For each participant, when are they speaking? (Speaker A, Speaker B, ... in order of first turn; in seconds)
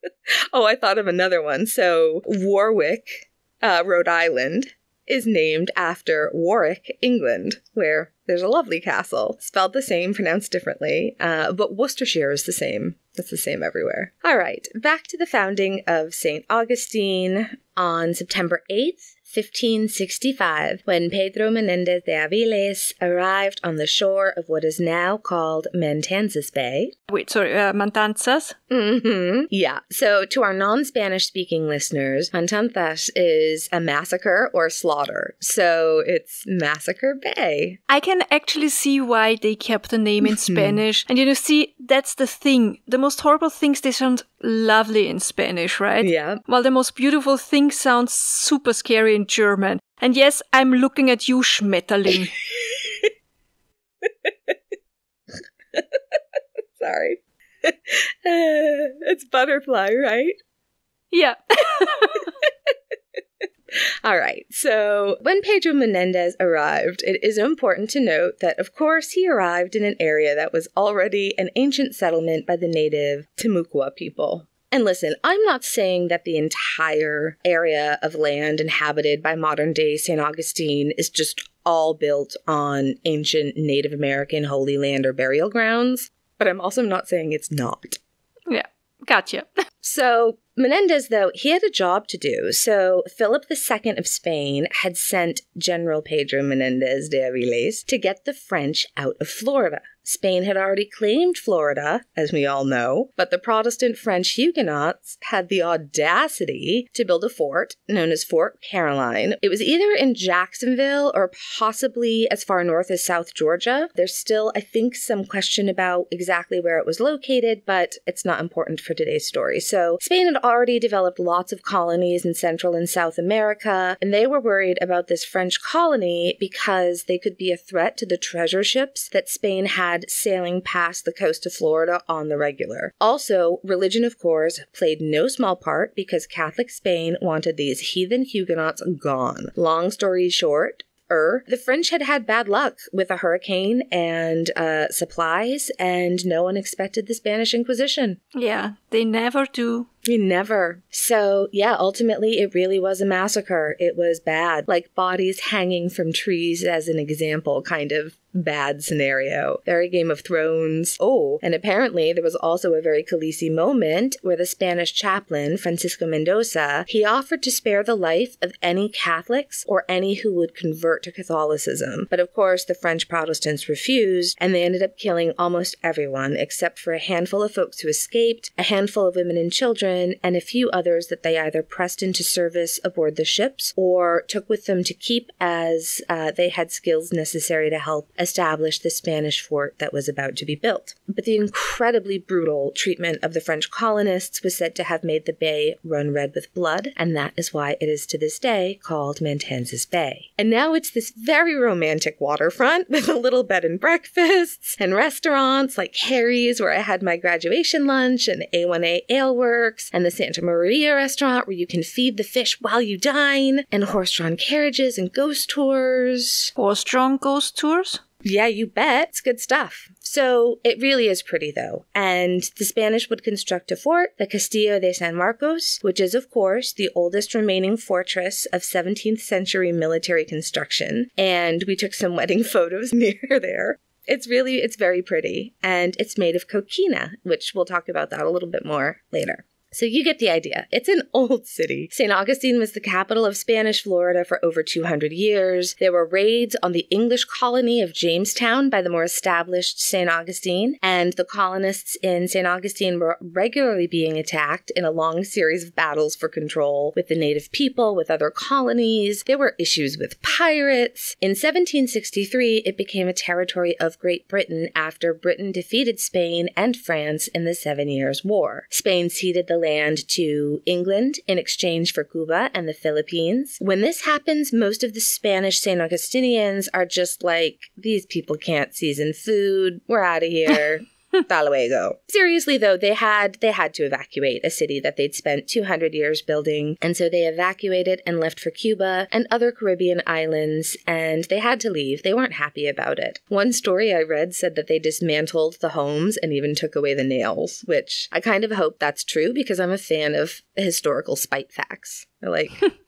Speaker A: 0.5-26.9, 28.7-37.8, 40.2-40.8, 46.0-46.4, 52.6-53.1, 54.0-54.5, 55.7-56.2, 56.8-60.4, 63.7-88.0, 89.8-148.2, 150.0-216.5, 218.2-302.7
Speaker B: 27.1-28.6, 37.9-52.3, 61.1-62.3, 88.5-89.5, 148.3-149.9, 216.6-218.0